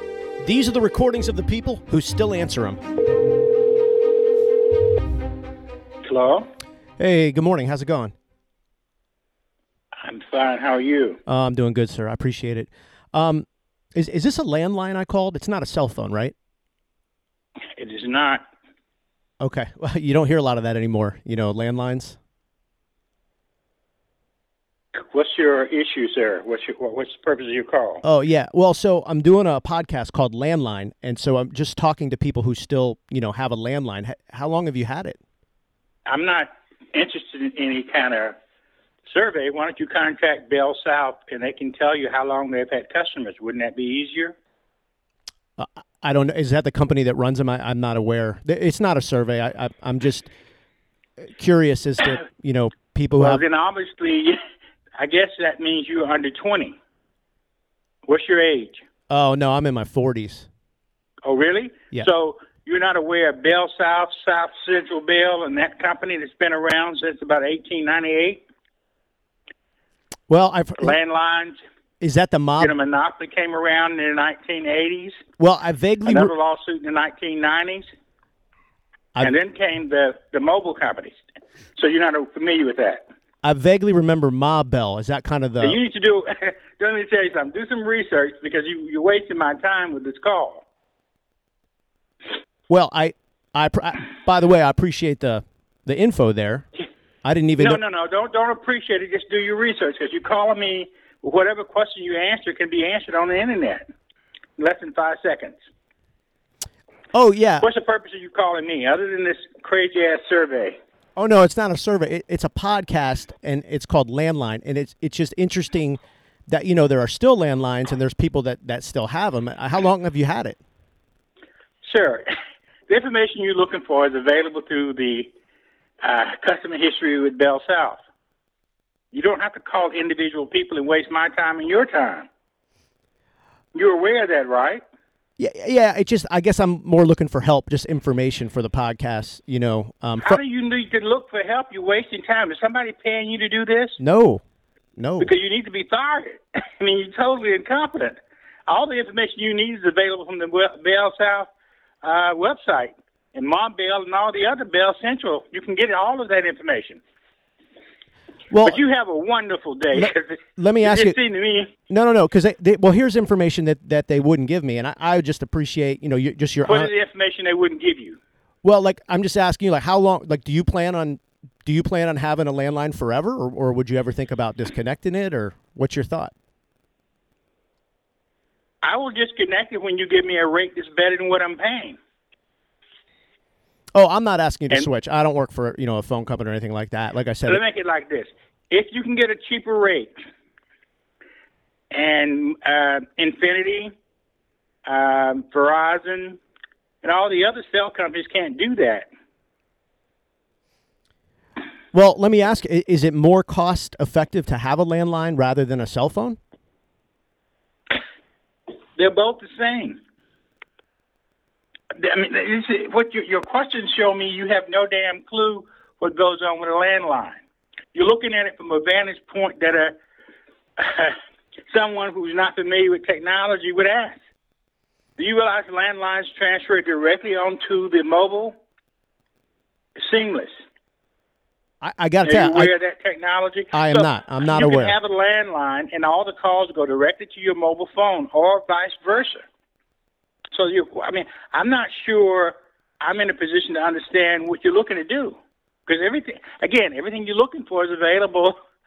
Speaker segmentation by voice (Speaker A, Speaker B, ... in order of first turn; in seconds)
Speaker A: 0.4-2.8, 7.0-8.1, 11.3-16.3, 19.4-22.2, 28.0-35.2, 45.6-50.3, 51.2-53.4, 59.1-60.5, 70.3-71.0, 72.0-72.8, 75.4-76.3, 83.4-85.8, 92.7-96.7, 97.2-97.8, 107.1-107.7, 111.2-120.6, 135.4-140.4, 144.0-144.4, 145.0-145.3, 158.5-158.8, 159.9-161.2, 161.9-166.9, 168.6-176.3, 183.9-187.6, 201.9-206.4, 231.8-232.7, 233.7-234.9
Speaker B: 6.0-6.5, 10.0-11.2, 17.8-18.4, 24.9-28.0, 36.1-38.4, 39.1-44.3, 53.2-54.4, 55.0-56.8, 58.0-58.8, 61.2-68.4, 70.8-71.6, 72.6-75.2, 76.0-77.9, 79.2-81.2, 81.8-83.0, 85.6-90.6, 97.6-103.8, 104.6-105.6, 107.6-110.8, 121.8-122.3, 122.9-125.3, 126.0-128.0, 129.1-132.3, 133.7-134.8, 140.2-144.0, 145.2-151.5, 152.0-157.0, 158.6-161.7, 166.6-168.2, 178.8-182.0, 187.4-190.1, 191.9-193.9, 194.8-196.4, 197.0-199.1, 209.0-210.0, 211.9-217.4, 217.9-219.9, 220.8-221.2, 221.7-224.2, 225.2-228.6, 230.0-230.5, 232.2-239.4, 240.5-248.6